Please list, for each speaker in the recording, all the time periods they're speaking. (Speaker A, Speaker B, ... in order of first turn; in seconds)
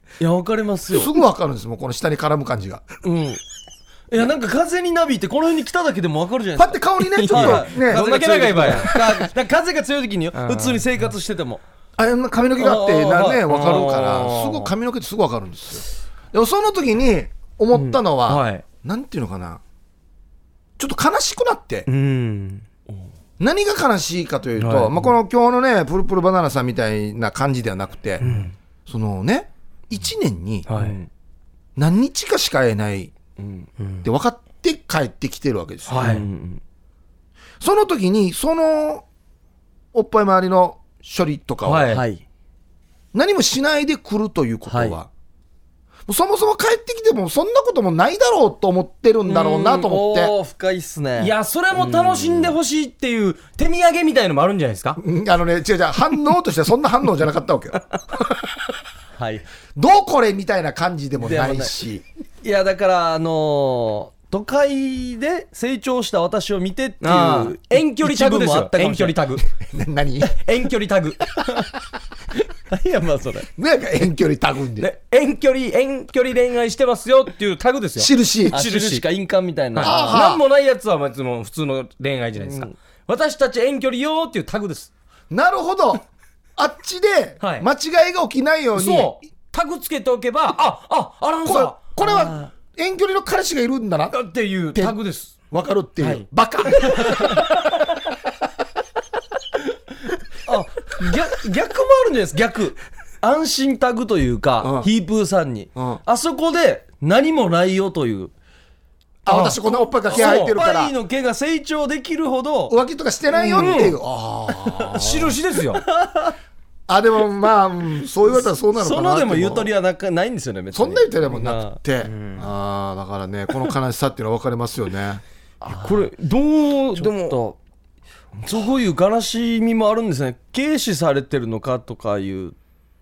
Speaker A: 0.2-1.1, 3.0-3.4, 4.1-11.6, 12.6-14.4, 30.7-31.1, 33.4-33.7, 36.0-36.6, 41.9-42.2, 44.6-45.0, 49.2-52.5, 59.1-59.4, 61.2-61.7, 62.4-69.1, 72.7-73.5, 78.5-80.2, 82.4-82.7, 92.0-92.5, 100.5-108.3, 110.1-112.8, 113.3-114.0, 115.8-116.3, 118.4-121.8, 125.6-126.1, 127.0-127.6, 128.4-132.5
Speaker B: 0.9-2.8, 6.5-9.0, 12.0-19.6, 20.8-21.9, 23.4-28.2, 28.9-30.7, 31.8-33.1, 34.0-36.0, 37.6-39.0, 39.9-42.0, 43.1-45.1, 46.1-50.3, 55.0-57.8, 59.8-62.0, 69.4-70.3, 73.6-74.9, 78.0-78.6, 79.8-80.4, 85.3-86.0, 86.6-89.2, 91.4-94.2, 95.5-97.4, 104.6-104.9, 105.7-106.0, 109.2-110.9, 112.7-115.3, 116.9-119.7, 120.7-125.2
Speaker C: 7.1-9.0, 10.3-10.8, 13.5-14.7, 17.7-18.6, 21.9-22.6, 24.6-25.1, 28.2-28.5, 30.7-31.0, 33.8-34.0, 35.9-36.2, 41.6-42.0, 51.2-55.0, 67.0-69.4, 70.2-71.2, 74.8-79.0, 79.7-84.9, 87.4-87.7, 88.7-91.9, 94.1-95.3, 96.0-96.2, 96.8-97.5, 109.3-109.6, 110.1-110.5, 113.6-113.9, 115.0-115.8, 122.0-122.5, 125.7-127.4